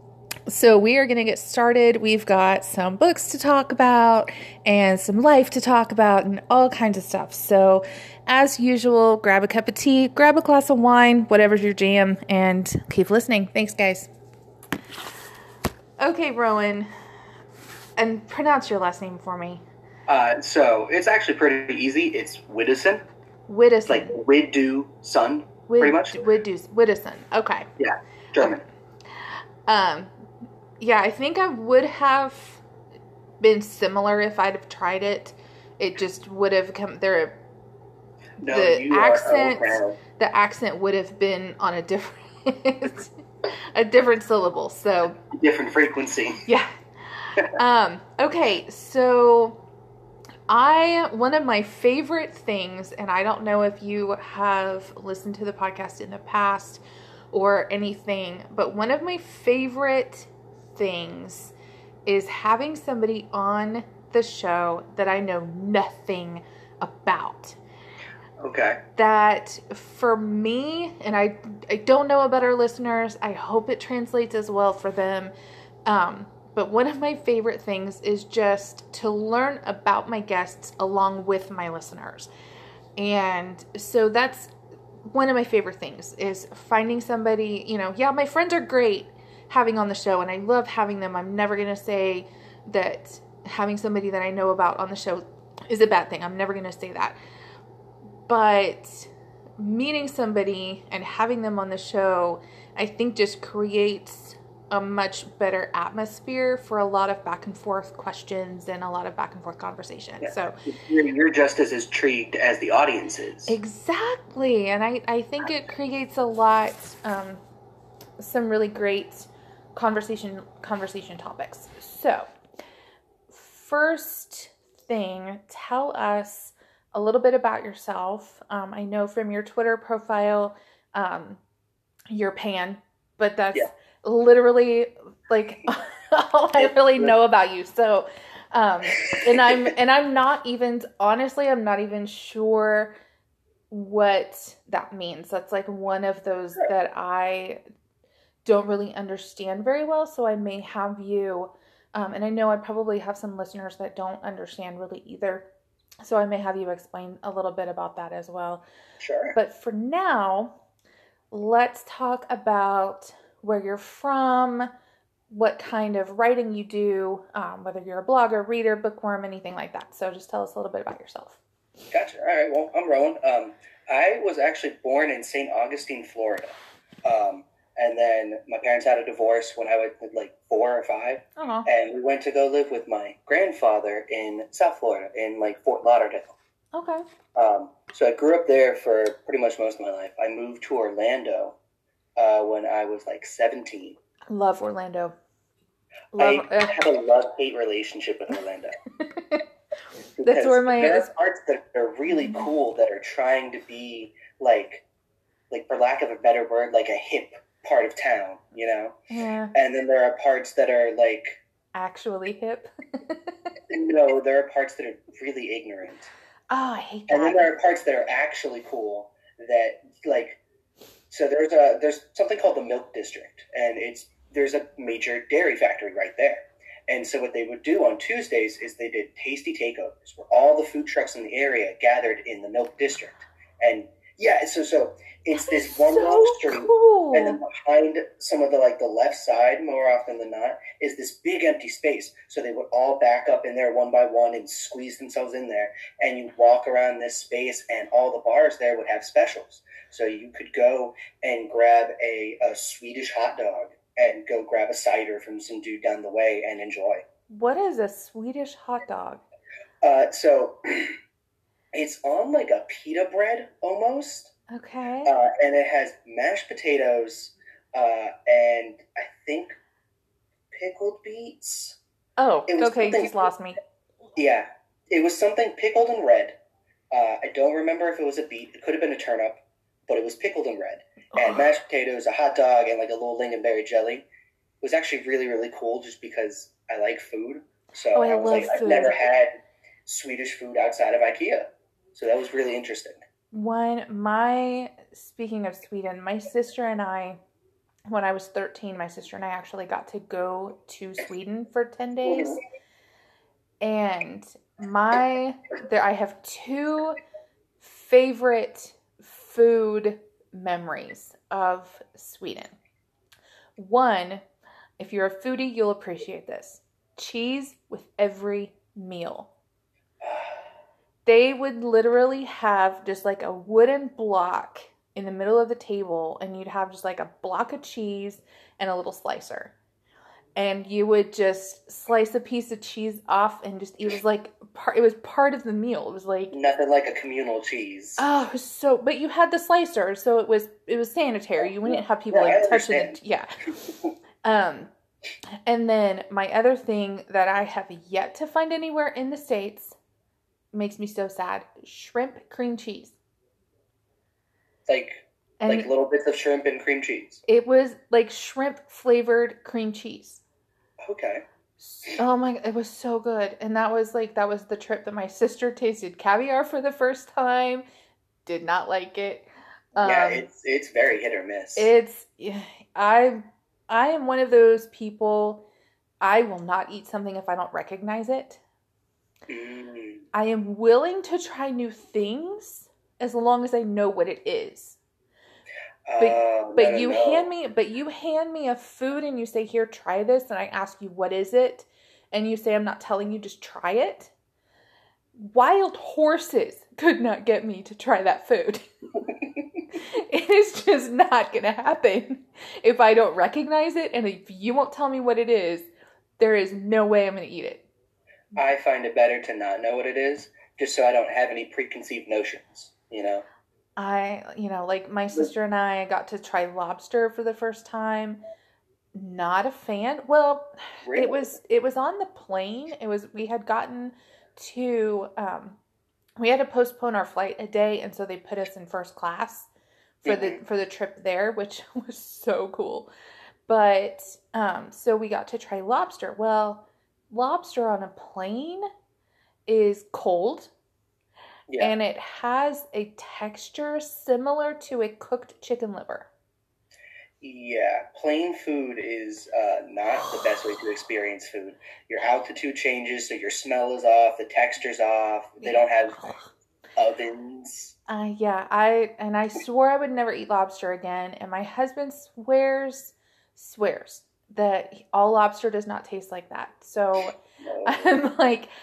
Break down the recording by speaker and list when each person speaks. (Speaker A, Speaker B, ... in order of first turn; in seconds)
Speaker A: 0.5-14.1, 16.0-16.9, 18.0-19.6, 23.5-24.1, 25.7-27.7, 29.7-30.1, 30.8-32.6, 33.4-37.4, 38.5-43.1, 43.7-45.2, 46.5-49.6, 50.5-61.5, 62.0-67.6, 69.0-75.3, 75.9-82.3, 83.0-84.5, 85.1-97.2, 98.3-110.6, 113.5-117.4, 118.2-122.3, 123.3-131.4, 132.1-142.9, 143.7-147.6, 148.4-155.5, 156.0-158.6, 159.3-160.5, 161.3-164.7, 165.3-171.4, 181.4-181.7, 186.7-187.0, 194.3-195.1, 196.1-196.8, 199.0-199.4, 200.2-201.1, 202.1-202.5, 209.1-209.5, 211.7-213.2, 216.5-217.5, 235.3-237.4, 257.3-259.2, 264.5-265.1, 272.2-273.6, 281.1-281.5, 287.9-289.0, 293.3-297.2, 297.9-302.4, 303.6-307.0, 307.6-312.6, 313.6-314.2, 314.8-319.3, 321.1-329.5, 330.4-336.3, 338.0-343.6, 344.2-344.7, 345.4-349.8, 350.5-352.9, 355.4-355.7, 357.3-360.2, 361.6-367.6, 368.2-370.2, 371.6-375.4, 376.0-378.4, 380.1-384.8, 386.0-394.1, 395.2-398.6, 399.8-405.6, 406.2-407.6, 413.8-418.2, 418.9-425.6, 426.2-429.5, 430.0-432.9, 433.5-438.6, 439.5-440.5, 441.6-446.1, 455.4-456.3, 457.9-468.5
Speaker B: 20.1-23.0, 23.9-26.2, 27.8-28.6, 38.4-40.0, 45.3-46.4, 68.4-68.8, 110.2-113.5, 136.6-137.1, 139.0-139.6, 159.0-159.3, 171.9-186.3, 187.3-191.6, 192.2-194.0, 196.2-198.8, 200.2-204.8, 205.5-208.9, 209.5-211.4, 213.7-216.1, 217.1-220.4, 221.1-257.0, 259.8-260.9, 261.7-264.3, 265.0-269.6, 270.5-271.8, 272.5-273.3, 274.1-276.4, 276.9-284.1, 284.6-289.3, 289.9-293.0, 302.0-302.4, 320.0-320.4, 336.3-338.0, 341.6-342.9, 354.7-357.2, 360.8-361.2, 369.8-371.7, 379.3-380.0, 385.9-387.3, 408.3-413.2, 420.8-421.4, 430.0-430.4, 441.5-441.7, 447.2-456.0, 456.8-457.7, 467.4-467.9